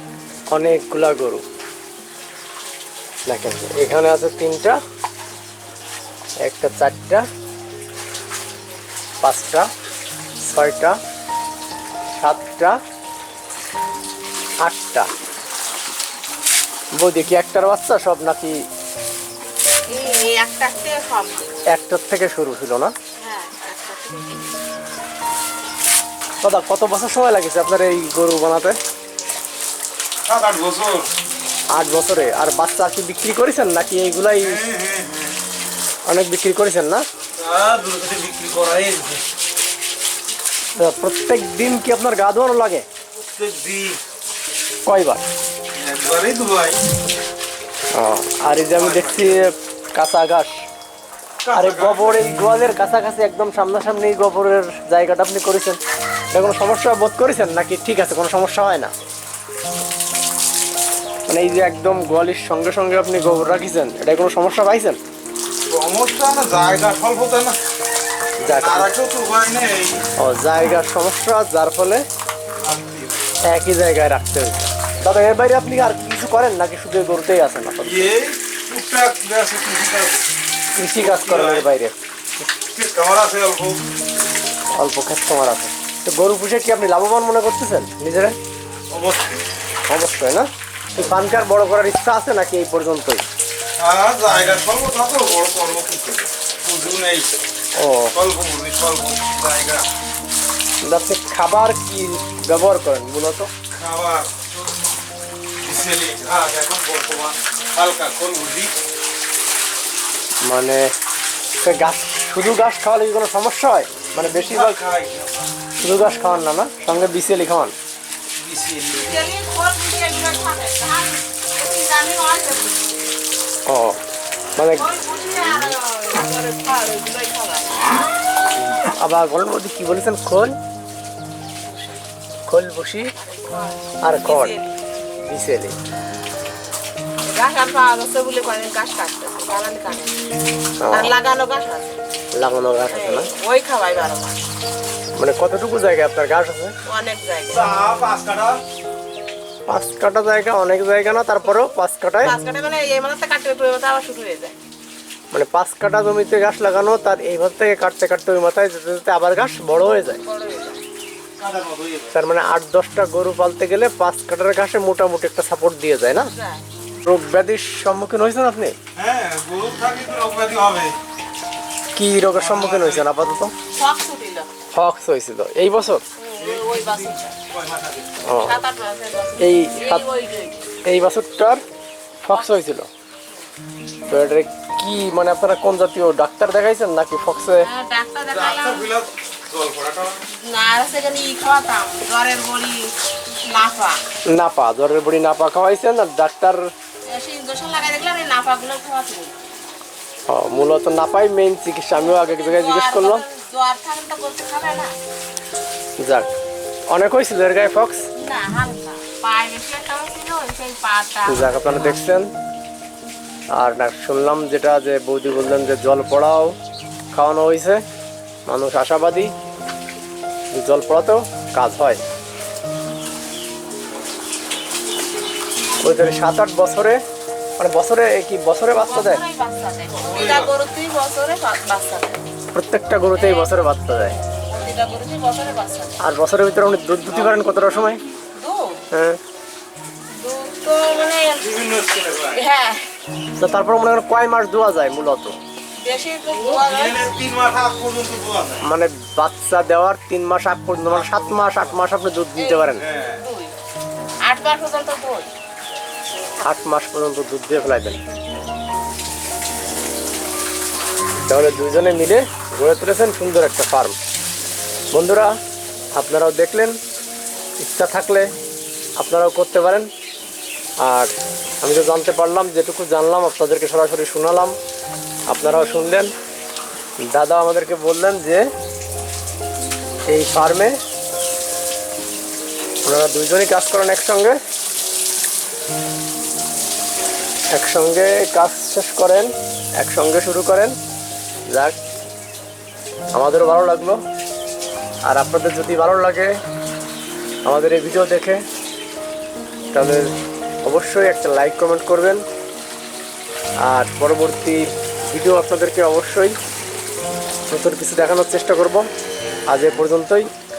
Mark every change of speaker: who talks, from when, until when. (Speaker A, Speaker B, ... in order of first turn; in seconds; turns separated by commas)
Speaker A: 0.5-1.4, Speaker A: 3.3-4.8, Speaker A: 6.4-7.2, Speaker A: 9.2-9.7, Speaker A: 10.4-11.0, Speaker A: 12.2-12.8, Speaker A: 14.6-15.1, Speaker A: 17.0-18.6, Speaker B: 19.9-21.5, Speaker A: 21.7-22.9, Speaker B: 23.2-24.5, Speaker A: 26.4-28.8, Speaker C: 30.3-31.1, Speaker A: 31.7-34.6, Speaker C: 34.4-35.4, Speaker A: 36.1-37.0, Speaker C: 37.4-39.2, Speaker A: 40.8-42.9, Speaker C: 43.2-44.0, Speaker A: 44.9-45.2, Speaker C: 45.7-46.8, Speaker A: 48.0-50.6, Speaker C: 48.7-49.5, Speaker C: 51.4-52.3, Speaker A: 51.5-55.8, Speaker A: 56.3-58.9, Speaker A: 61.3-65.0, Speaker C: 65.7-67.6, Speaker A: 68.4-68.9, Speaker C: 68.5-70.0, Speaker A: 70.2-72.0, Speaker C: 72.6-73.2, Speaker A: 73.5-78.1, Speaker C: 77.8-80.2, Speaker A: 80.8-82.0, Speaker C: 81.0-81.7, Speaker C: 82.7-83.8, Speaker A: 84.8-88.4, Speaker C: 88.9-89.4, Speaker A: 89.9-93.2, Speaker C: 93.8-97.3, Speaker A: 97.8-98.2, Speaker C: 98.1-99.9, Speaker A: 100.8-103.5, Speaker C: 103.7-104.6, Speaker C: 105.6-108.7, Speaker A: 110.5-110.9, Speaker A: 111.6-114.8, Speaker C: 114.2-115.5, Speaker A: 115.8-117.8, Speaker C: 118.4-119.2, Speaker B: 119.0-123.0, Speaker A: 123.7-124.0, Speaker A: 124.6-124.9, Speaker B: 124.6-128.0, Speaker A: 128.7-130.6, Speaker B: 131.6-132.0, Speaker A: 132.5-133.1, Speaker B: 133.2-134.8, Speaker A: 134.0-134.6, Speaker A: 135.2-135.8, Speaker B: 137.2-140.2, Speaker A: 140.8-141.1, Speaker B: 140.9-142.0, Speaker A: 142.3-143.3, Speaker B: 142.9-144.4, Speaker A: 145.2-146.7, Speaker B: 146.9-147.7, Speaker C: 147.5-148.6, Speaker A: 149.7-152.4, Speaker B: 152.2-154.6, Speaker A: 155.3-160.2, Speaker B: 159.9-160.8, Speaker C: 161.4-162.2, Speaker A: 162.1-166.3, Speaker B: 166.2-166.6, Speaker A: 167.1-168.8, Speaker C: 169.0-171.0, Speaker A: 171.9-173.5, Speaker C: 172.3-173.1, Speaker B: 173.7-174.5, Speaker A: 174.7-176.0, Speaker B: 176.2-177.4, Speaker C: 176.4-178.2, Speaker A: 178.2-178.6, Speaker B: 178.4-180.7, Speaker A: 179.4-180.1, Speaker A: 180.8-181.6, Speaker A: 182.2-182.9, Speaker B: 182.3-182.6, Speaker A: 184.1-187.7, Speaker B: 187.6-188.9, Speaker C: 188.3-190.2, Speaker B: 190.4-192.9, Speaker B: 193.4-194.0, Speaker A: 194.3-196.7, Speaker B: 197.1-199.4, Speaker A: 200.3-203.2, Speaker B: 201.9-204.9, Speaker A: 206.0-206.3, Speaker A: 206.9-208.0, Speaker B: 208.2-212.0, Speaker A: 211.3-212.3, Speaker A: 213.6-216.5, Speaker A: 217.1-217.8, Speaker A: 218.5-219.3, Speaker A: 220.5-222.0, Speaker A: 225.8-227.0, Speaker A: 227.6-229.2, Speaker B: 228.7-232.2, Speaker C: 229.9-230.5, Speaker A: 232.5-234.2, Speaker B: 233.0-236.0, Speaker A: 236.0-238.0, Speaker C: 237.0-238.1, Speaker B: 238.3-238.8, Speaker A: 238.9-239.2, Speaker B: 240.1-241.5, Speaker C: 241.4-242.4, Speaker B: 242.3-242.9, Speaker A: 243.4-245.3, Speaker B: 245.8-247.1, Speaker C: 246.3-248.6, Speaker A: 248.6-252.9, Speaker C: 250.9-251.8, Speaker B: 252.4-253.5, Speaker C: 252.8-253.2, Speaker B: 254.2-255.3, Speaker A: 256.5-258.0, Speaker A: 261.3-264.0, Speaker A: 264.9-265.4, Speaker A: 265.9-266.8, Speaker A: 267.6-268.3, Speaker A: 269.0-269.9, Speaker A: 270.8-271.1, Speaker A: 271.6-274.6, Speaker A: 275.3-276.1, Speaker A: 277.0-278.4, Speaker A: 280.1-280.8, Speaker A: 282.9-284.4, Speaker A: 287.5-290.8, Speaker A: 291.5-291.8, Speaker A: 293.1-294.0, Speaker A: 295.1-296.3, Speaker A: 297.5-298.4, Speaker A: 299.7-300.1, Speaker A: 300.6-302.2, Speaker A: 303.6-306.4, Speaker A: 307.5-308.9, Speaker A: 309.5-310.3